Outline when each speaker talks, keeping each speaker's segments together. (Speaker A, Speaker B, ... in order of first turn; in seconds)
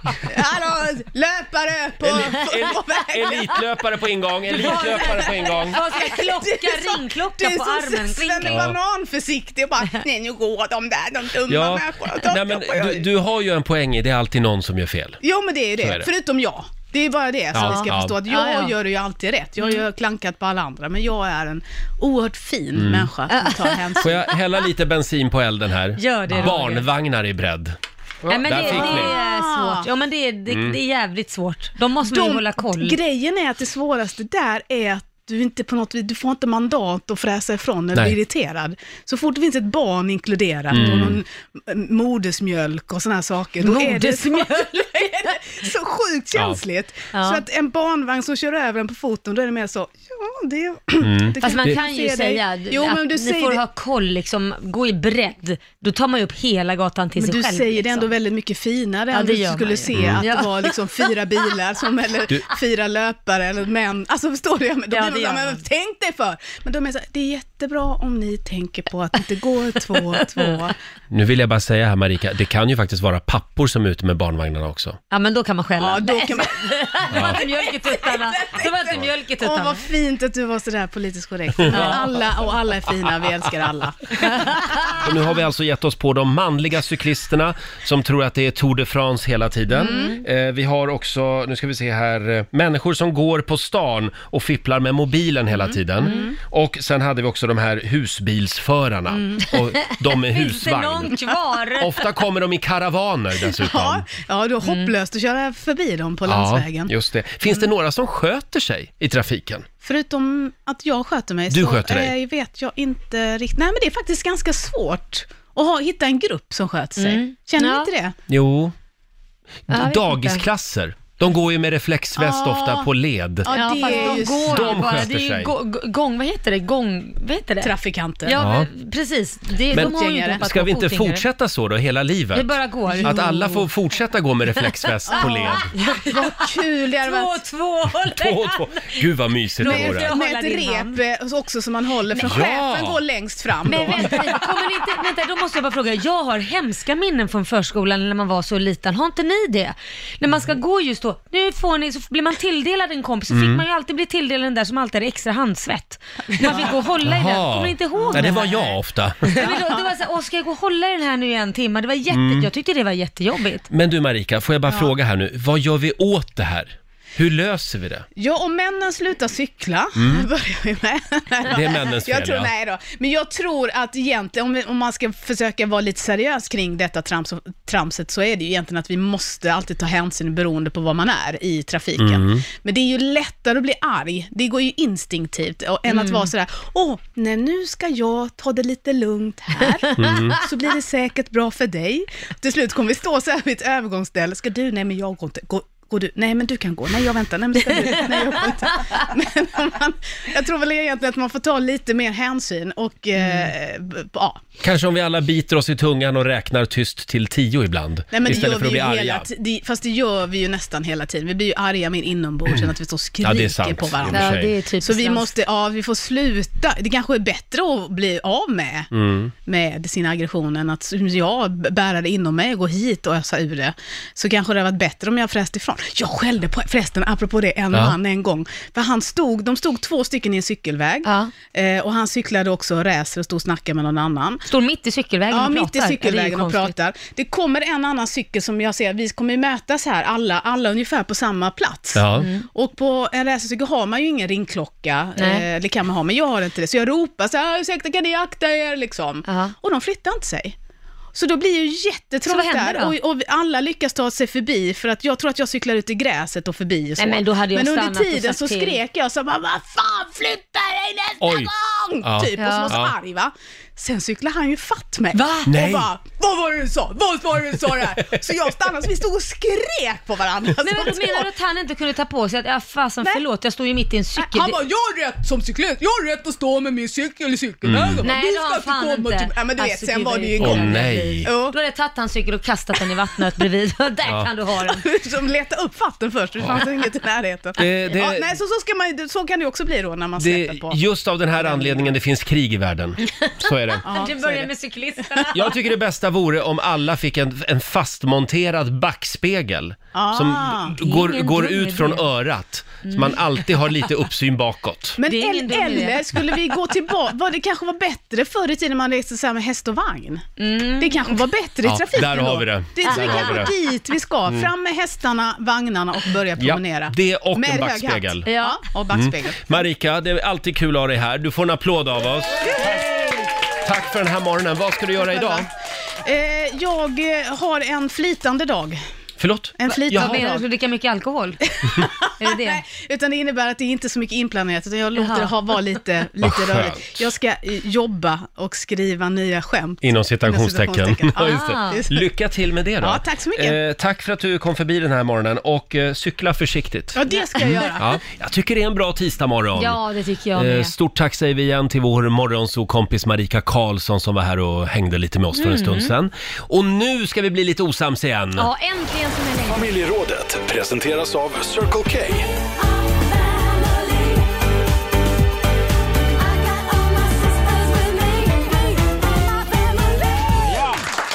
Speaker A: 0.2-3.6, 4.6-13.1, 15.2-24.2, 28.5-29.9, 32.0-53.6, 57.1-70.7, 75.8-84.5, 89.8-90.2, 96.0-96.3, 103.4-106.9, 109.8-118.2, 122.2-122.9, 123.4-124.9, 127.6-128.4, 129.6-130.4, 132.9-133.2, 135.1-137.4, 139.6-144.7, 156.4-156.8, 158.0-158.6, 159.3-159.9, 164.7-164.9, 168.2-204.4, 208.1-218.9, 219.4-234.4, 235.3-250.6, 251.1-271.3, 274.1-281.6, 284.6-290.8, 291.4-291.9, 293.8-295.3, 299.9-300.8, 305.0-319.6, 322.4-323.3, 325.0-325.5, 326.0-328.8, 329.6-330.4, 331.5-342.0, 342.8-343.6, 346.9-347.9
Speaker B: 2.0-5.8, 8.4-8.7, 11.5-15.2, 15.8-16.1, 17.5-18.1, 22.7-23.1, 24.0-29.1, 30.5-30.8, 40.7-41.2, 46.3-46.6, 51.0-51.8, 59.9-60.2, 71.1-75.0, 77.1-77.4, 81.6-82.0, 85.0-101.2, 101.8-104.1, 106.2-109.7, 111.5-112.1, 118.3-118.7, 119.7-125.5, 128.4-128.7, 129.7-135.7, 138.1-140.1, 142.2-143.0, 153.3-153.6, 157.0-159.3, 162.1-162.5, 163.7-168.1, 169.9-170.3, 171.5-172.5, 182.0-182.4, 190.0-190.4, 204.6-209.3, 213.2-214.5, 218.9-219.3, 241.9-242.3, 261.2-261.5, 262.0-262.9, 265.4-265.9, 277.6-278.0, 280.4-281.3, 287.6-288.3, 290.2-293.8, 295.3-305.0, 311.6-313.5, 316.4-318.3, 318.9-322.8, 323.6-325.5, 329.2-330.2, 336.2-337.1, 339.8-347.0, 347.6-349.8, 350.3-358.5, 370.5-370.8
Speaker C: 4.5-8.7, 17.6-18.7, 23.3-24.0, 26.0-26.9, 28.3-33.0, 40.8-41.1, 43.6-45.2, 47.1-47.4, 51.4-58.1, 59.1-61.1, 64.9-65.6, 69.9-70.6, 75.1-79.9, 81.7-82.1, 89.8-90.2, 96.0-96.3, 99.9-101.9, 104.6-104.9, 117.0-117.9, 119.7-120.4, 123.5-127.7, 128.2-131.2, 132.3-133.6, 135.1-139.0, 139.6-141.0, 143.7-158.8, 159.3-163.7, 185.9-186.3, 197.9-198.4, 214.1-215.3, 231.0-231.3, 234.5-236.8, 242.1-242.4, 245.2-245.4, 249.3-249.5, 252.2-252.9, 257.0-258.8, 262.3-262.8, 265.1-265.5, 270.6-274.6, 278.0-284.8, 293.1-295.5, 300.8-302.0, 302.9-303.2, 305.1-306.4, 310.4-311.2, 312.9-313.6, 318.2-318.6, 329.7-331.4, 332.2-332.6, 334.9-335.3, 341.2-341.8, 347.1-347.6, 349.5-350.7, 355.3-355.9, 358.4-359.7, 367.7-368.3
Speaker D: 359.4-362.3